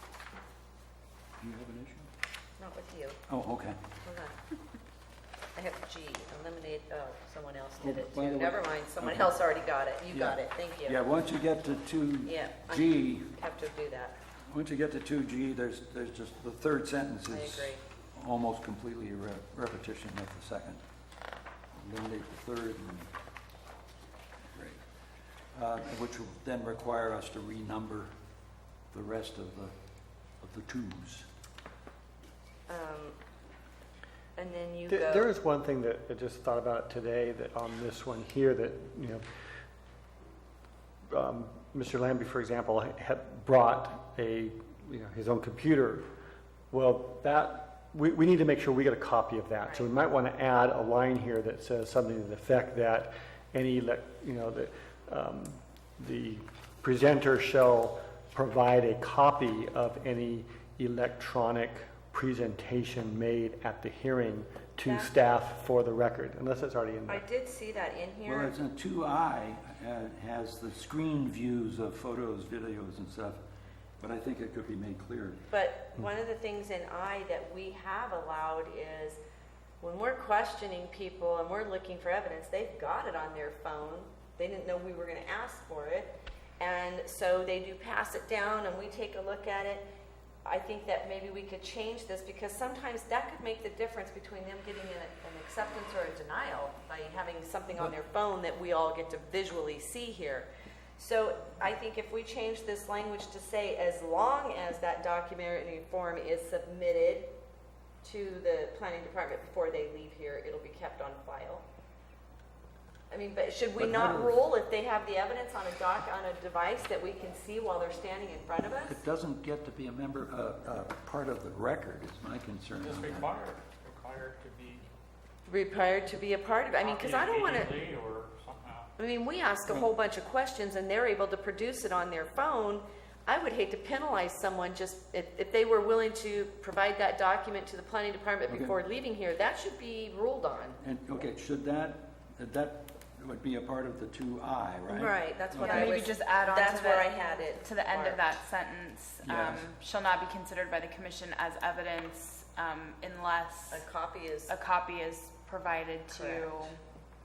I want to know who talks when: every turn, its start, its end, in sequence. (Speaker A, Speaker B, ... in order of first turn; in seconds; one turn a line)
Speaker A: 1.4-2.1
Speaker B: 2.6-3.2
Speaker A: 3.3-3.8
Speaker B: 4.0-4.3
Speaker B: 5.6-11.0
Speaker A: 7.8-9.4
Speaker A: 10.1-13.3
Speaker B: 12.3-14.2
Speaker A: 14.5-20.8
Speaker B: 17.3-17.8
Speaker A: 21.7-23.1
Speaker A: 24.5-24.8
Speaker A: 25.5-28.1
Speaker A: 28.9-29.7
Speaker A: 30.4-31.3
Speaker B: 32.7-33.2
Speaker B: 34.4-35.3
Speaker C: 34.9-39.2
Speaker C: 41.1-46.0
Speaker C: 46.7-67.2
Speaker B: 64.8-65.1
Speaker B: 67.1-68.5
Speaker A: 68.2-73.4
Speaker A: 74.0-75.4
Speaker B: 75.5-79.2
Speaker B: 79.8-89.9
Speaker B: 90.5-107.3
Speaker B: 108.0-111.7
Speaker B: 113.1-119.0
Speaker A: 113.8-114.4
Speaker A: 118.8-123.3
Speaker D: 122.8-124.9
Speaker B: 125.5-127.8
Speaker D: 126.8-128.9
Speaker B: 129.0-140.8
Speaker A: 138.5-138.8
Speaker A: 140.8-146.0
Speaker B: 144.9-148.4
Speaker E: 145.6-153.9
Speaker A: 149.2-149.7
Speaker B: 153.7-154.6
Speaker E: 154.5-156.8
Speaker B: 156.1-156.7